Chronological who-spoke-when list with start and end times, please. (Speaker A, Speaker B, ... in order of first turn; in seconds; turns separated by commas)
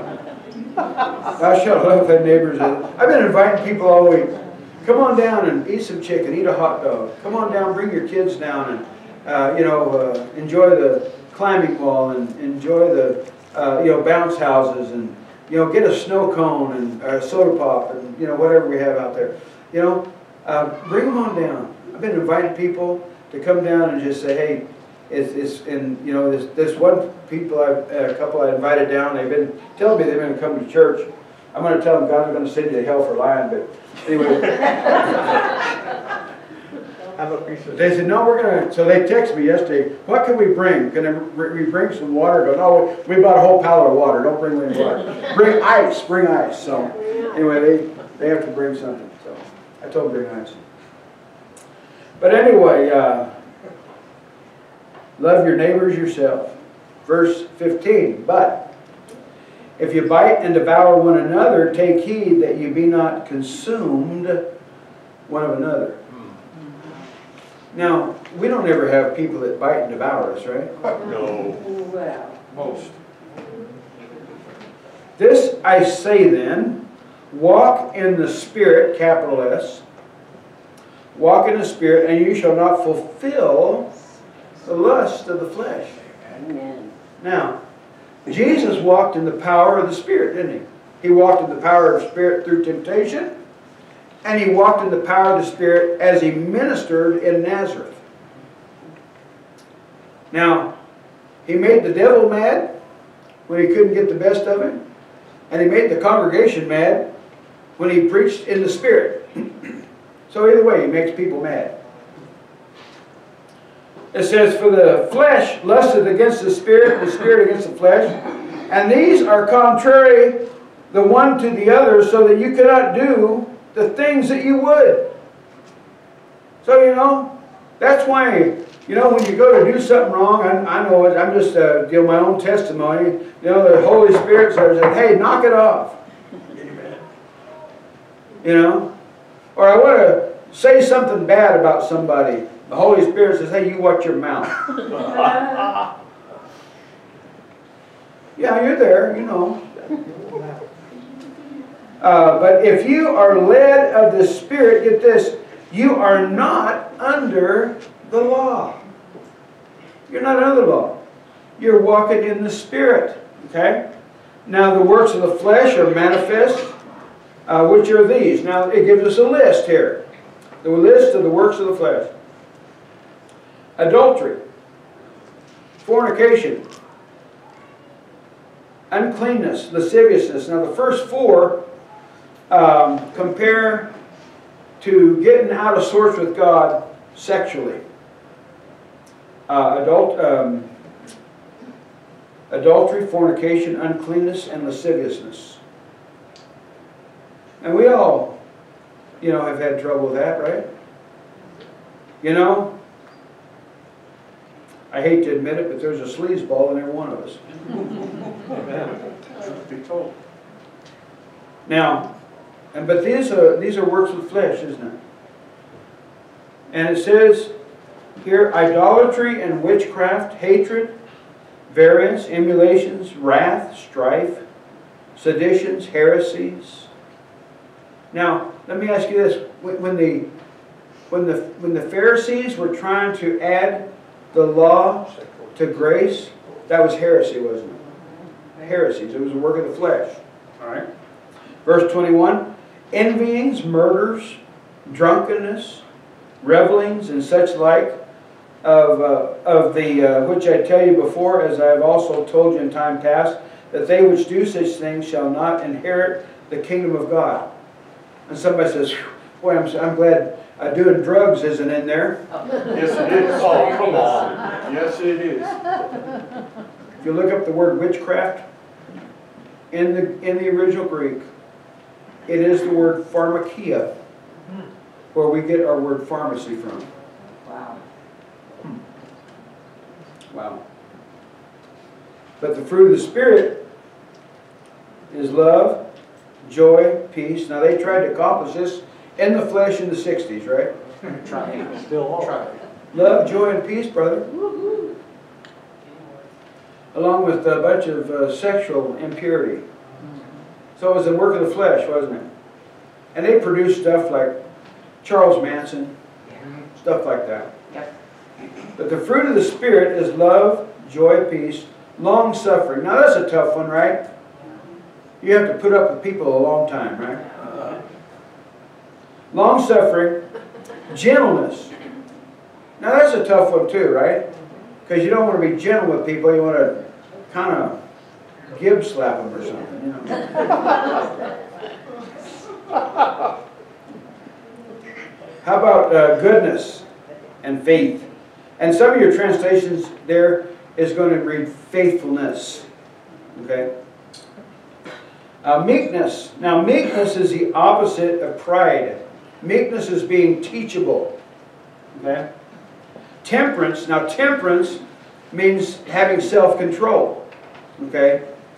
Speaker A: 1.3-35.3, Speaker B: 37.1-37.9, Speaker A: 37.7-50.6, Speaker A: 52.2-53.3, Speaker A: 55.2-56.5, Speaker A: 57.0-58.7, Speaker A: 59.8-64.4, Speaker A: 65.3-66.0, Speaker A: 67.7-70.7, Speaker B: 71.0-71.6, Speaker C: 71.0-72.6, Speaker A: 75.2-79.8, Speaker A: 81.1-83.9, Speaker A: 84.6-85.9, Speaker C: 86.3-86.9, Speaker A: 87.2-87.6, Speaker A: 88.2-93.3, Speaker A: 94.2-98.0, Speaker A: 100.3-100.7, Speaker A: 101.4-102.8, Speaker A: 103.5-104.8, Speaker A: 105.5-107.1, Speaker A: 107.8-109.7, Speaker A: 110.3-111.8, Speaker A: 114.1-125.1, Speaker A: 126.6-136.0, Speaker B: 136.6-137.0, Speaker A: 138.4-138.9, Speaker A: 139.5-144.9, Speaker A: 148.3-149.7, Speaker A: 152.0-158.8, Speaker A: 160.1-161.0, Speaker A: 161.6-163.8, Speaker A: 164.4-166.8, Speaker A: 167.4-170.0, Speaker A: 170.6-172.1, Speaker A: 173.8-174.4, Speaker A: 175.8-176.6, Speaker A: 178.9-181.6, Speaker A: 182.5-183.9, Speaker A: 184.8-187.8, Speaker A: 189.5-190.7, Speaker A: 192.5-195.6, Speaker A: 197.6-198.4, Speaker A: 199.2-200.7, Speaker A: 202.2-202.7, Speaker A: 204.9-207.4, Speaker B: 208.5-210.2, Speaker A: 211.7-212.1, Speaker A: 212.7-215.0, Speaker A: 216.7-217.5, Speaker A: 218.2-220.9, Speaker A: 221.7-224.4, Speaker A: 225.2-226.9, Speaker A: 228.1-230.3, Speaker A: 231.1-237.8, Speaker A: 238.6-240.8, Speaker A: 241.6-245.8, Speaker A: 246.4-247.9, Speaker A: 248.6-257.5, Speaker A: 258.3-262.2, Speaker C: 262.5-264.6, Speaker B: 262.6-265.9, Speaker A: 267.0-268.4, Speaker A: 269.7-271.2, Speaker A: 272.3-273.9, Speaker A: 275.1-276.9, Speaker C: 277.4-277.8, Speaker A: 280.3-280.6, Speaker A: 282.4-283.6, Speaker A: 285.1-285.8, Speaker A: 286.4-290.7, Speaker B: 291.0-292.6, Speaker A: 292.9-294.3, Speaker A: 296.9-299.6, Speaker A: 300.8-302.3, Speaker A: 303.1-304.4, Speaker A: 305.0-305.9, Speaker A: 306.8-307.5, Speaker A: 308.8-314.0, Speaker A: 315.2-317.3, Speaker A: 319.3-320.2, Speaker A: 320.9-321.7, Speaker A: 322.8-324.2, Speaker A: 324.9-327.8, Speaker A: 328.5-330.5, Speaker A: 335.4-336.8, Speaker A: 337.4-342.6, Speaker A: 343.3-343.7, Speaker A: 345.4-351.1, Speaker A: 351.9-352.3, Speaker A: 353.2-357.2, Speaker A: 357.8-358.2